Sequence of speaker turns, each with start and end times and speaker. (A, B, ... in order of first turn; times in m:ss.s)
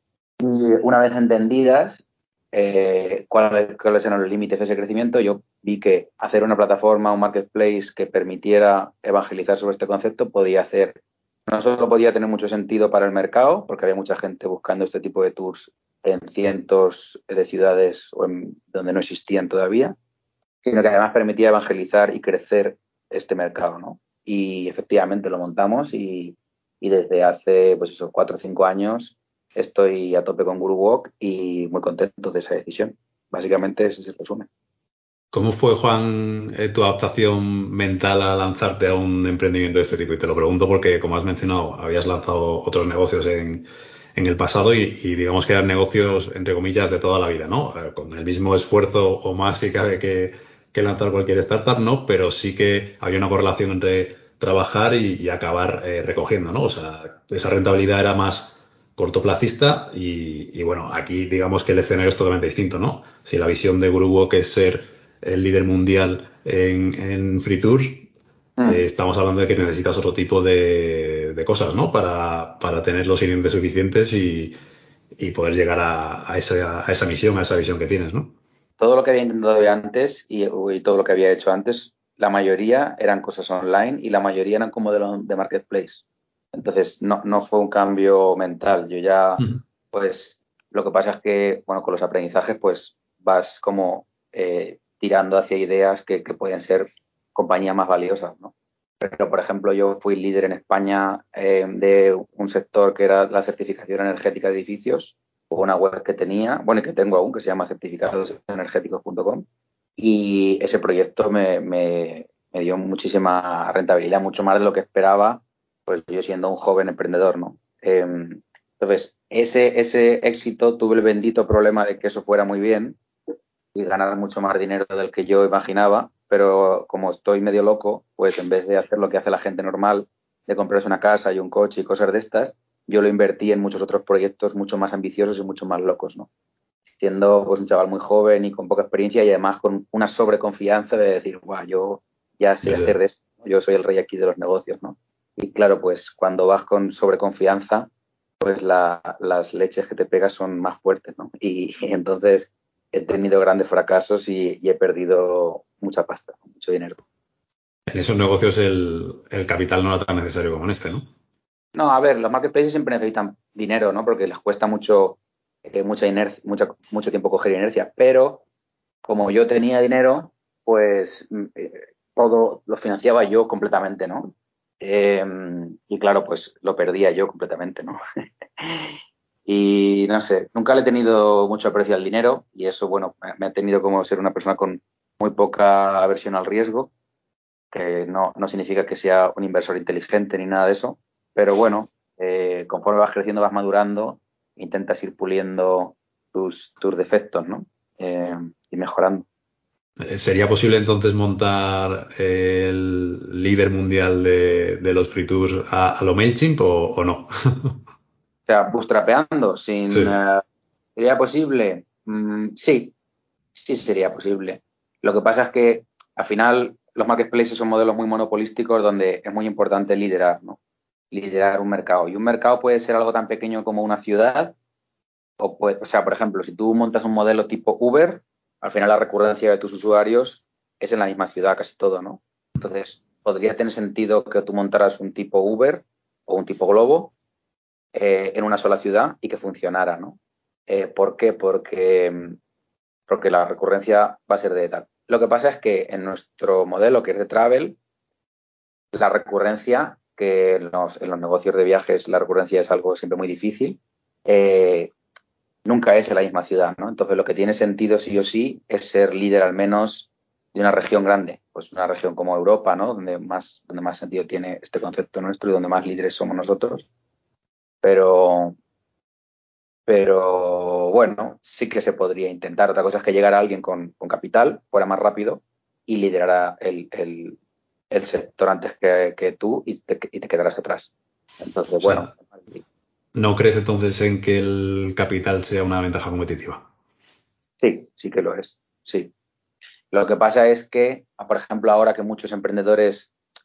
0:00.4-0:20.0 A
0:20.6-0:34.5 A
0:35.3-1:08.1 B
1:08.6-1:08.8 A
1:08.7-1:14.6 B
1:15.2-1:18.3 B
1:18.8-1:49.5 A
1:50.0-2:03.0 A
2:03.7-2:16.3 A
2:17.0-2:27.9 A
2:22.6-2:23.0 B
2:28.4-2:37.0 A
2:37.9-2:41.1 B
2:41.7-2:48.4 A
2:49.0-2:58.0 A
2:58.6-2:58.9 A
2:59.5-3:06.9 A
3:07.7-3:19.3 A
3:20.0-3:27.8 B
3:28.5-3:30.4 A
3:29.9-3:30.2 B
3:31.0-3:32.9 A
3:33.5-3:40.6 A
3:41.1-3:44.5 A
3:45.4-3:57.1 A
3:57.9-4:02.4 A
4:03.1-4:07.8 A
4:08.9-4:14.9 A
4:15.6-4:26.9 A
4:27.8-4:28.6 A
4:29.9-4:37.4 A
4:37.9-4:42.6 A
4:41.8-4:42.1 B
4:43.1-4:46.6 B
4:47.6-4:49.1 A
4:49.9-4:53.1 A